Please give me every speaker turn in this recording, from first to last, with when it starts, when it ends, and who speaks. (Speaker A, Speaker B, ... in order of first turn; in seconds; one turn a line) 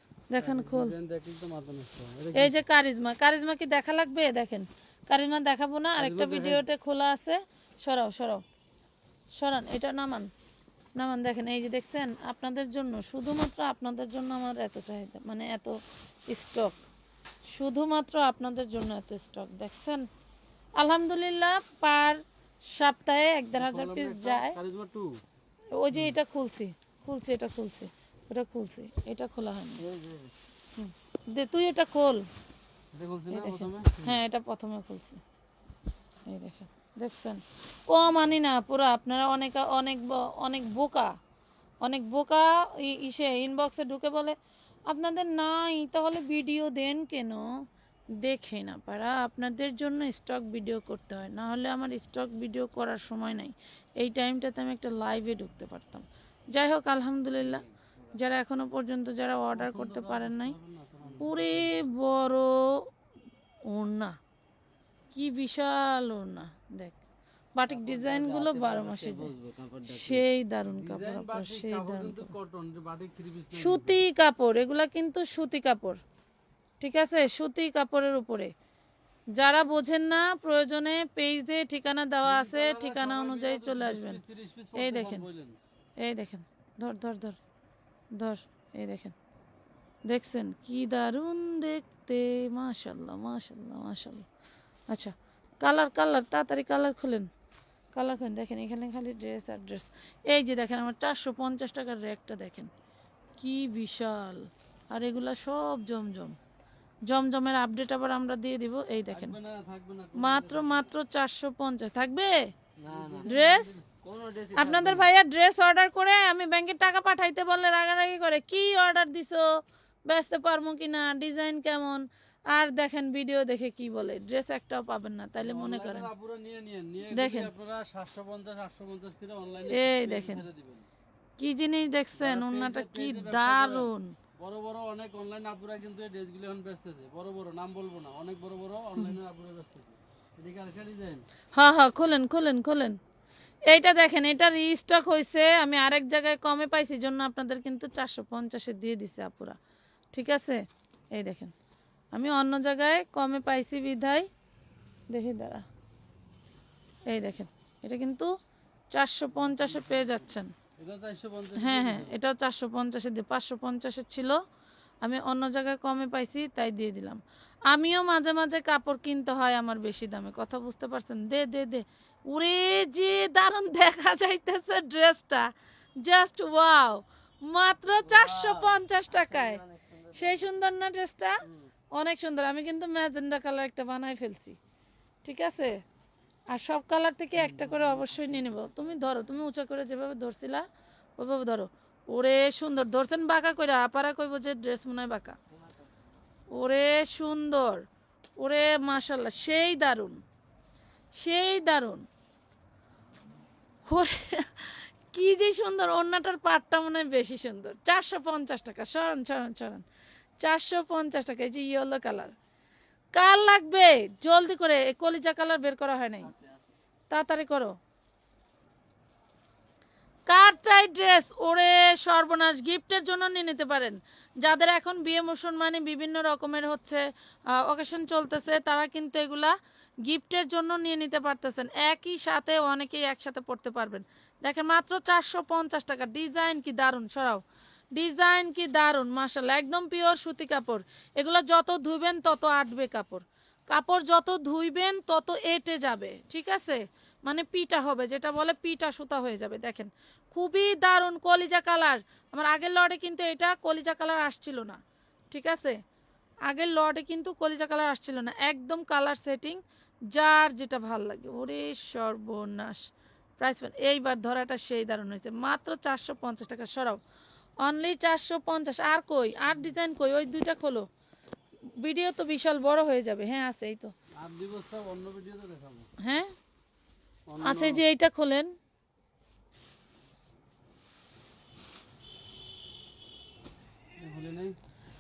Speaker A: 0.3-0.9
Speaker B: 0.4-2.6
Speaker A: 2.3-8.4
Speaker B: 6.0-6.6
Speaker A: 9.3-10.3
Speaker A: 10.9-16.8
Speaker A: 17.5-20.1
Speaker A: 20.8-24.6
Speaker B: 23.6-25.2
Speaker A: 25.7-29.8
Speaker C: 29.8-30.3
Speaker A: 30.8-32.3
Speaker B: 32.9-34.2
Speaker A: 33.3-35.2
Speaker A: 36.3-41.1
Speaker A: 41.8-44.4
Speaker A: 44.9-47.5
Speaker A: 48.2-60.6
Speaker C: 57.4-58.2
Speaker B: 59.5-61.7
Speaker A: 61.2-62.9
Speaker A: 63.7-64.2
Speaker A: 65.1-67.0
Speaker A: 67.5-69.3
Speaker C: 67.7-70.2
Speaker A: 69.9-72.3
Speaker B: 70.7-74.0
Speaker A: 73.5-76.0
Speaker A: 76.8-78.5
Speaker A: 79.3-84.2
Speaker B: 82.2-85.6
Speaker A: 84.8-85.2
Speaker A: 86.0-87.4
Speaker A: 88.1-89.2
Speaker A: 90.1-94.3
Speaker A: 94.9-97.3
Speaker A: 97.9-102.7
Speaker A: 103.4-106.4
Speaker A: 107.1-109.4
Speaker B: 109.1-110.9
Speaker A: 110.2-112.5
Speaker C: 112.8-113.3
Speaker B: 112.9-113.8
Speaker A: 113.3-113.8
Speaker C: 114.0-115.1
Speaker A: 114.6-119.5
Speaker A: 120.1-126.1
Speaker B: 125.4-130.9
Speaker A: 127.1-127.5
Speaker A: 129.7-130.4
Speaker A: 131.4-134.1
Speaker B: 132.2-141.2
Speaker A: 141.5-143.0
Speaker A: 143.7-149.6
Speaker A: 150.1-151.5
Speaker A: 152.1-154.3
Speaker A: 155.1-155.7
Speaker A: 157.1-158.3
Speaker A: 158.9-160.5
Speaker B: 159.3-162.2
Speaker A: 161.6-164.4
Speaker A: 165.0-179.6
Speaker C: 178.0-180.5
Speaker A: 180.1-184.6
Speaker C: 181.4-181.7
Speaker A: 185.2-185.8
Speaker A: 186.5-190.7
Speaker C: 187.3-189.3
Speaker A: 191.2-195.4
Speaker C: 195.5-196.1
Speaker A: 196.5-197.9
Speaker A: 198.4-200.2
Speaker A: 201.1-202.1
Speaker A: 203.9-209.8
Speaker A: 210.4-212.3
Speaker A: 213.1-216.3
Speaker C: 216.2-216.6
Speaker A: 217.1-217.8
Speaker A: 220.3-237.4
Speaker A: 237.9-255.8
Speaker A: 256.5-267.0
Speaker A: 267.6-270.9
Speaker A: 271.8-273.9
Speaker B: 274.2-275.9
Speaker A: 276.0-276.3
Speaker B: 277.3-277.8
Speaker A: 277.4-278.5
Speaker B: 284.0-284.6